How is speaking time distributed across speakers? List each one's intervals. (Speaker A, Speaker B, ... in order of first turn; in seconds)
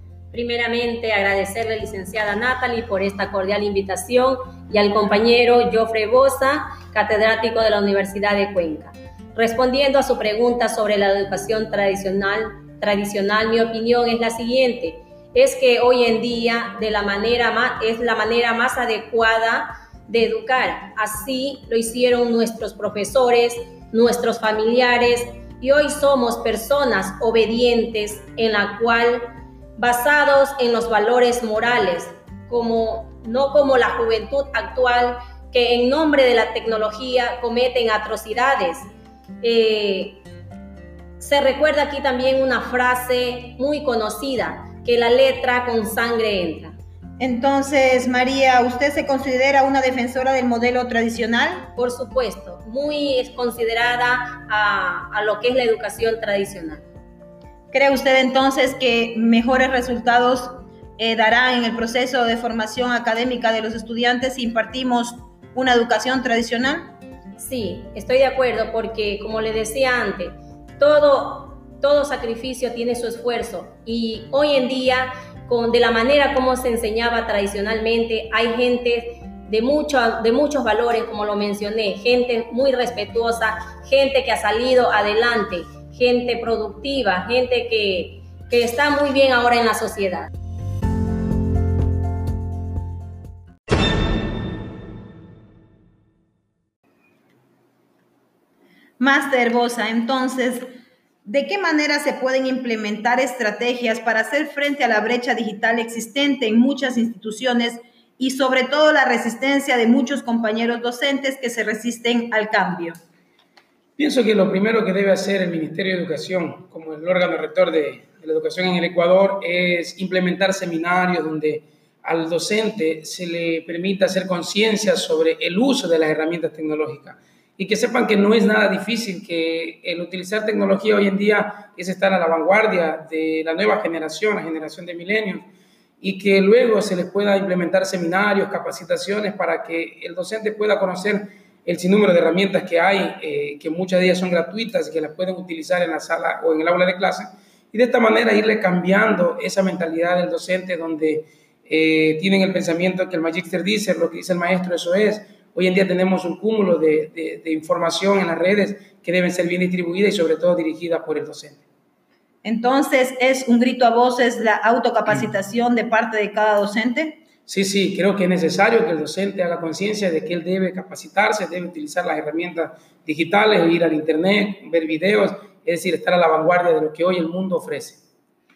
Speaker A: 0.3-38.9, 39.4-40.2, 41.2-46.8, 51.8-56.8, 67.4-90.3
Speaker B: 47.2-51.7, 57.7-67.0, 99.0-100.7, 101.2-113.0, 162.4-167.2
Speaker C: 114.0-135.5, 136.0-161.6, 167.5-178.0